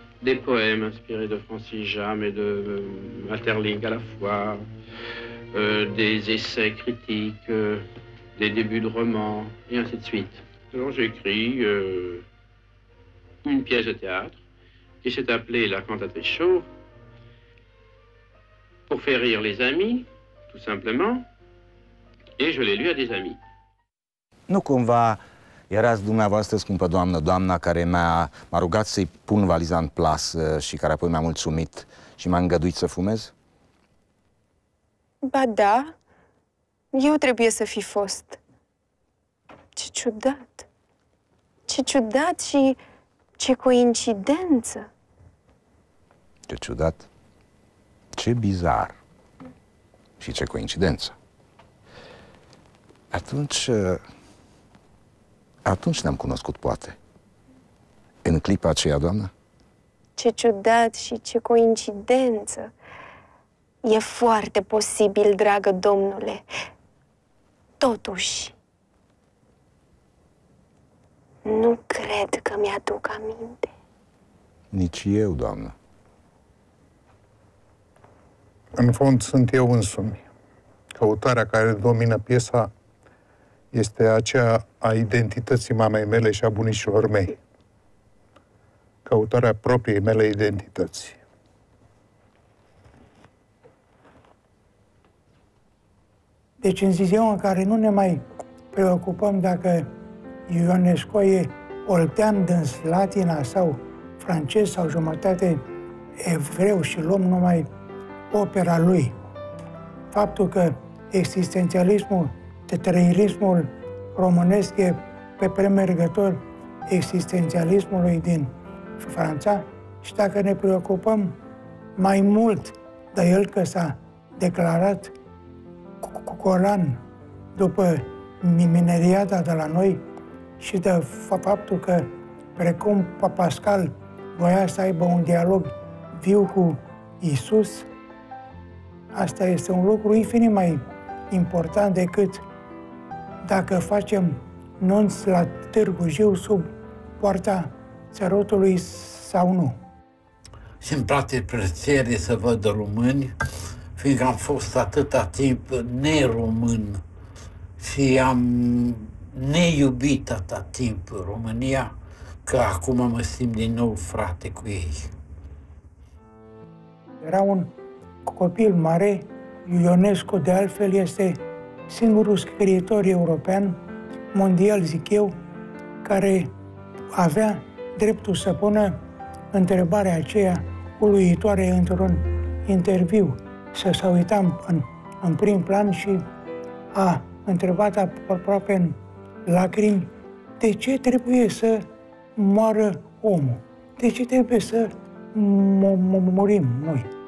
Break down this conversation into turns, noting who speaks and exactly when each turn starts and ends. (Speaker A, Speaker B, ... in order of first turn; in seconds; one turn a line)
Speaker A: 0.2-4.7
Speaker A: 5.5-7.8
Speaker A: 8.4-12.2
Speaker A: 13.4-14.4
Speaker A: 15.0-16.7
Speaker A: 18.9-21.2
Speaker A: 22.4-23.4
Speaker B: 24.5-33.3
Speaker C: 35.2-35.9
Speaker C: 36.9-38.4
Speaker C: 39.8-40.7
Speaker C: 41.7-42.8
Speaker C: 43.4-44.9
Speaker B: 46.5-47.1
Speaker B: 48.1-49.0
Speaker B: 50.2-51.2
Speaker B: 53.1-54.0
Speaker B: 55.6-57.0
Speaker B: 58.2-59.3
Speaker C: 60.2-62.7
Speaker C: 63.8-66.5
Speaker C: 67.8-68.5
Speaker C: 71.5-73.7
Speaker B: 74.7-75.7
Speaker D: 78.8-80.2
Speaker D: 81.0-82.7
Speaker D: 83.7-87.4
Speaker D: 89.1-91.2
Speaker E: 96.6-99.9
Speaker E: 100.5-105.6
Speaker E: 106.2-107.7
Speaker E: 108.3-109.1
Speaker E: 110.1-121.4
Speaker E: 122.0-125.1
Speaker E: 126.0-127.0
Speaker E: 127.6-130.0
Speaker E: 130.6-137.9
Speaker E: 139.1-142.4
Speaker E: 143.4-149.8
Speaker F: 150.8-153.3
Speaker F: 154.0-157.0
Speaker F: 157.8-161.9
Speaker F: 162.5-165.1
Speaker E: 167.2-167.7
Speaker E: 168.3-173.8
Speaker E: 174.3-175.3
Speaker E: 176.0-176.5
Speaker E: 177.2-179.0
Speaker E: 179.5-186.2
Speaker E: 186.9-191.9
Speaker E: 192.4-197.1